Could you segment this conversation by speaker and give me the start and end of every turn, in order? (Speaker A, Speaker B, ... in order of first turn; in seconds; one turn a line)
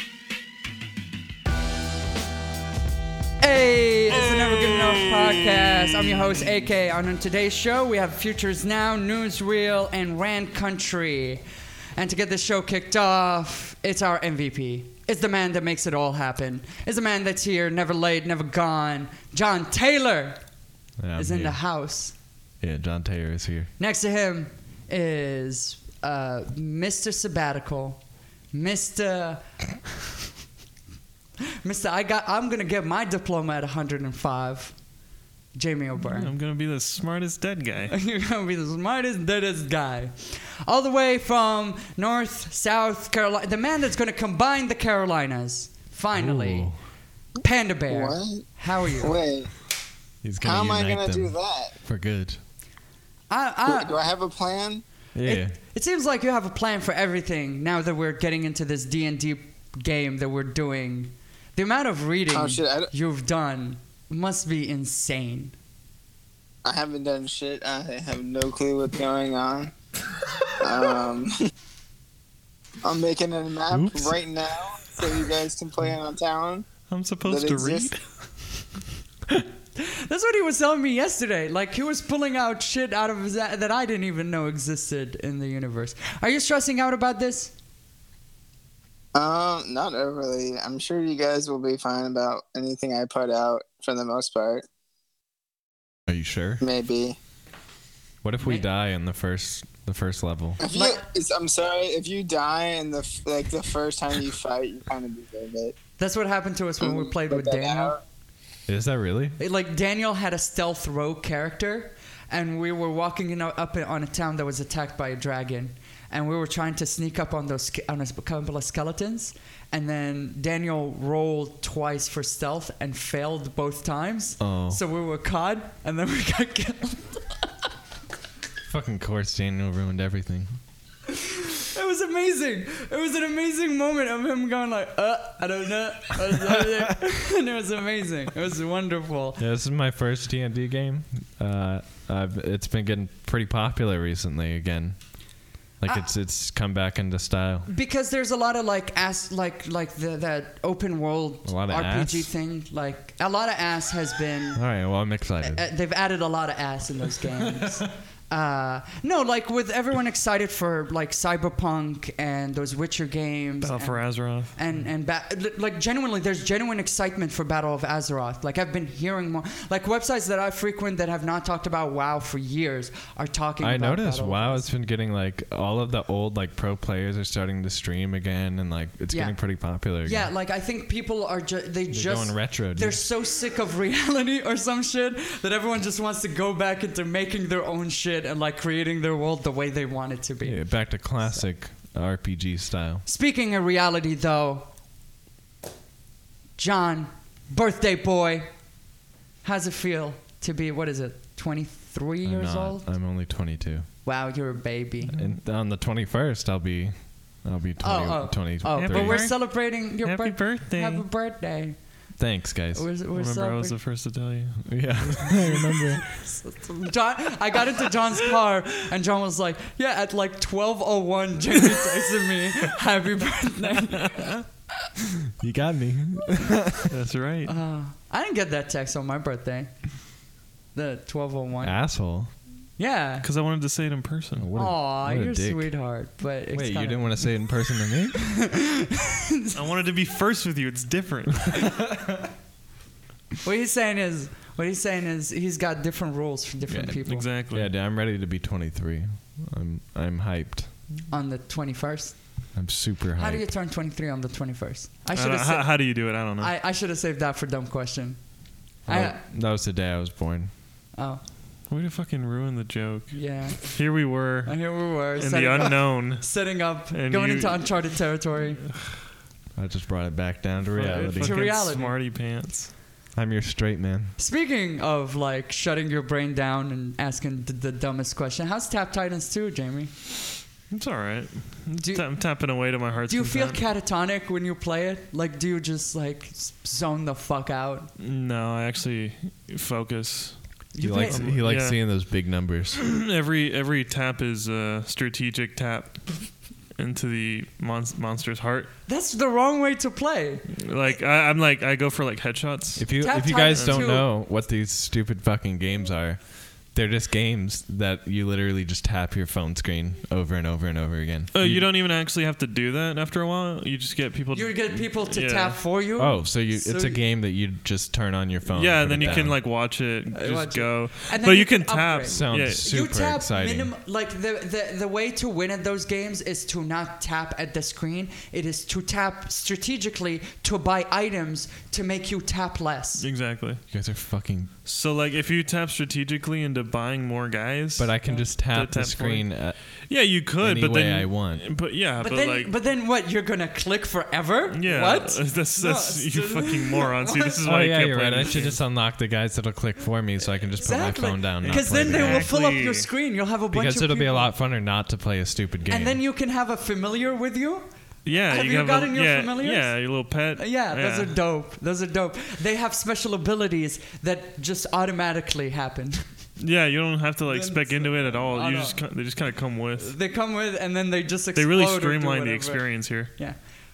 Speaker A: 3.4-11.4
Speaker A: 12.0-20.4
Speaker B: 21.0-21.6
Speaker A: 21.1-22.1
Speaker B: 22.6-23.7
Speaker A: 23.8-28.0
Speaker A: 28.5-30.1
Speaker A: 31.6-34.8
Speaker A: 35.5-36.3
Speaker C: 36.0-37.9
Speaker A: 37.9-46.7
Speaker B: 46.1-46.8
Speaker A: 47.4-49.2
Speaker D: 47.9-49.5
Speaker B: 50.2-52.4
Speaker D: 50.4-51.7
Speaker A: 53.3-53.9
Speaker D: 53.7-54.8
Speaker B: 55.1-55.5
Speaker A: 55.2-65.5
Speaker D: 62.3-62.9
Speaker D: 66.6-69.7
Speaker D: 70.6-71.5
Speaker D: 72.8-76.7
Speaker B: 73.7-74.1
Speaker C: 76.9-78.0
Speaker D: 77.2-77.9
Speaker A: 79.8-87.5
Speaker D: 89.1-94.6
Speaker B: 96.1-96.6
Speaker D: 96.6-97.2
Speaker B: 98.2-100.6
Speaker A: 98.4-98.6
Speaker D: 100.6-105.7
Speaker A: 100.7-101.0
Speaker A: 106.0-108.0
Speaker D: 106.8-108.0
Speaker B: 108.7-109.4
Speaker A: 109.4-127.5
Speaker B: 124.4-124.8
Speaker B: 128.7-130.6
Speaker A: 131.1-139.4
Speaker B: 139.4-145.0
Speaker B: 145.8-147.7
Speaker A: 147.7-154.6
Speaker B: 151.4-152.3
Speaker B: 154.6-155.6
Speaker A: 155.4-174.7
Speaker C: 163.6-164.5
Speaker B: 173.6-180.3
Speaker A: 179.1-179.4
Speaker A: 180.0-190.6
Speaker B: 181.9-183.0
Speaker B: 190.4-193.0
Speaker A: 193.1-194.7
Speaker A: 196.6-198.5
Speaker A: 199.4-202.9
Speaker B: 202.2-203.9
Speaker A: 204.1-205.1
Speaker C: 205.1-205.3
Speaker B: 205.2-209.3
Speaker A: 207.8-211.8
Speaker C: 208.8-211.1
Speaker B: 212.2-212.9
Speaker A: 212.7-213.8
Speaker C: 213.1-215.3
Speaker B: 214.7-216.1
Speaker A: 216.1-224.4
Speaker C: 224.1-224.4
Speaker B: 225.4-226.9
Speaker C: 226.9-227.5
Speaker A: 227.5-229.8
Speaker A: 230.8-231.8
Speaker B: 231.6-232.3
Speaker A: 232.8-233.3
Speaker C: 233.2-234.5
Speaker B: 234.4-235.7
Speaker A: 234.6-237.4
Speaker B: 236.5-238.2
Speaker A: 238.4-239.6
Speaker C: 239.6-241.7
Speaker A: 243.4-247.3
Speaker C: 247.1-247.7
Speaker B: 247.5-250.7
Speaker A: 251.1-252.2
Speaker B: 252.5-253.4
Speaker A: 253.2-258.2
Speaker C: 255.2-256.5
Speaker A: 258.9-259.2
Speaker B: 258.9-260.5
Speaker A: 260.9-261.2
Speaker C: 261.7-267.9
Speaker A: 263.1-268.6
Speaker B: 269.6-271.5
Speaker C: 270.7-272.7
Speaker A: 271.2-271.9
Speaker B: 273.2-274.1
Speaker A: 274.2-279.9
Speaker C: 280.7-283.6
Speaker A: 281.8-282.1
Speaker A: 283.1-287.9
Speaker C: 288.0-290.6
Speaker A: 290.7-291.4
Speaker B: 290.8-292.8
Speaker C: 291.1-292.0
Speaker C: 292.8-298.7
Speaker A: 298.9-300.6
Speaker C: 300.5-302.9
Speaker B: 302.8-311.7
Speaker A: 303.0-304.1
Speaker C: 303.5-303.9
Speaker C: 311.3-315.6
Speaker A: 314.3-317.0
Speaker B: 316.0-319.4
Speaker C: 318.5-322.7
Speaker A: 319.0-319.4
Speaker A: 320.1-333.1
Speaker B: 322.1-323.7
Speaker C: 333.0-333.6
Speaker B: 333.7-334.5
Speaker C: 334.6-342.5
Speaker B: 337.8-339.6
Speaker B: 340.1-341.4
Speaker A: 342.0-347.4
Speaker C: 344.5-348.6
Speaker B: 347.4-352.3
Speaker A: 350.6-354.3
Speaker C: 351.4-352.9
Speaker B: 353.5-356.0
Speaker A: 355.7-357.7
Speaker C: 358.1-361.1
Speaker A: 358.3-359.8
Speaker A: 360.4-366.1
Speaker C: 366.4-369.9
Speaker A: 367.3-368.8
Speaker A: 369.8-373.4
Speaker C: 371.4-373.1